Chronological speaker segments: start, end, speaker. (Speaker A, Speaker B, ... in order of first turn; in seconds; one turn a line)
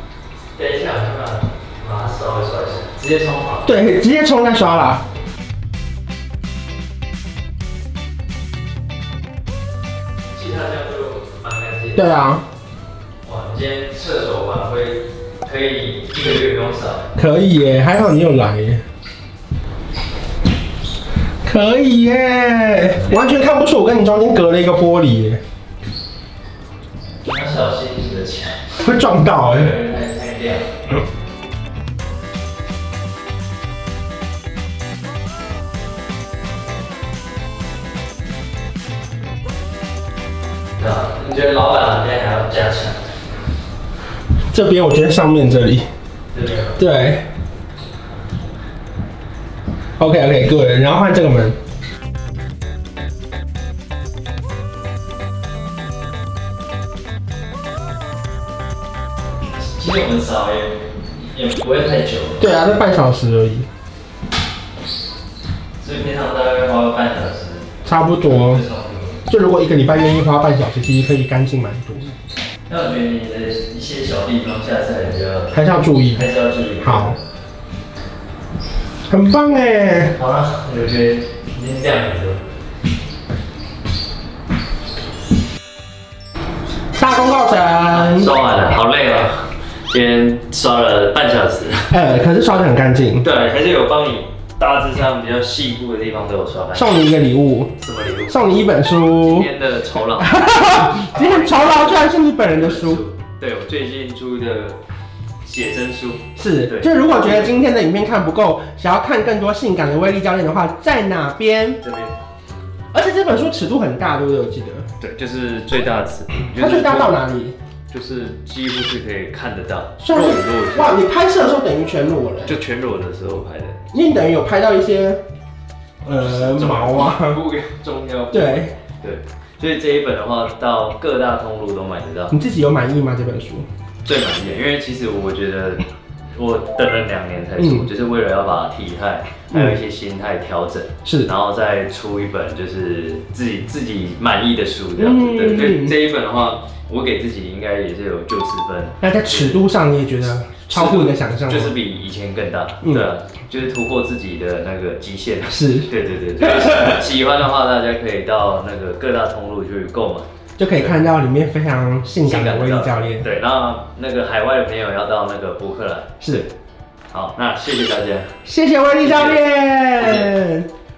Speaker A: 0.6-3.8
Speaker B: 3.7-5.0
Speaker A: 10.3-12.0
Speaker B: 11.9-12.4
Speaker A: 13.2-17.1
Speaker B: 17.1-18.8
Speaker B: 21.4-25.4
Speaker A: 23.0-23.2
Speaker A: 27.2-28.8
Speaker B: 28.8-29.7
Speaker A: 29.4-30.7
Speaker A: 40.8-43.1
Speaker B: 44.5-45.9
Speaker A: 46.3-46.8
Speaker B: 46.8-47.3
Speaker B: 50.0-51.6
Speaker A: 59.6-62.7
Speaker B: 62.4-63.7
Speaker A: 65.8-69.2
Speaker B: 67.8-68.6
Speaker B: 69.3-72.1
Speaker A: 72.7-77.2
Speaker B: 75.5-76.2
Speaker B: 76.8-77.2
Speaker B: 79.1-80.2
Speaker A: 80.2-82.4
Speaker B: 87.0-88.3
Speaker A: 87.9-91.9
Speaker B: 91.9-93.2
Speaker A: 93.2-97.0
Speaker B: 96.7-97.7
Speaker A: 97.8-98.5
Speaker B: 98.3-99.5
Speaker A: 99.2-104.8
Speaker B: 100.2-103.0
Speaker A: 105.4-107.6
Speaker B: 106.4-111.8
Speaker A: 111.8-112.2
Speaker B: 112.9-114.9
Speaker A: 115.0-117.2
Speaker B: 116.5-117.6
Speaker A: 117.9-121.0
Speaker B: 120.0-122.6
Speaker A: 122.5-123.8
Speaker B: 123.9-125.2
Speaker B: 126.0-127.4
Speaker A: 126.2-132.3
Speaker B: 128.3-128.7
Speaker B: 132.3-133.7
Speaker A: 134.0-135.8
Speaker A: 136.3-149.6
Speaker B: 137.6-137.9
Speaker B: 139.5-139.8
Speaker B: 141.1-141.3
Speaker B: 145.0-146.0
Speaker B: 149.0-151.8
Speaker A: 150.7-161.2
Speaker B: 155.5-157.0
Speaker B: 160.6-163.3
Speaker A: 162.2-166.2
Speaker B: 166.2-166.5
Speaker A: 167.1-168.3
Speaker B: 168.4-170.7
Speaker A: 169.0-169.5
Speaker A: 170.0-170.3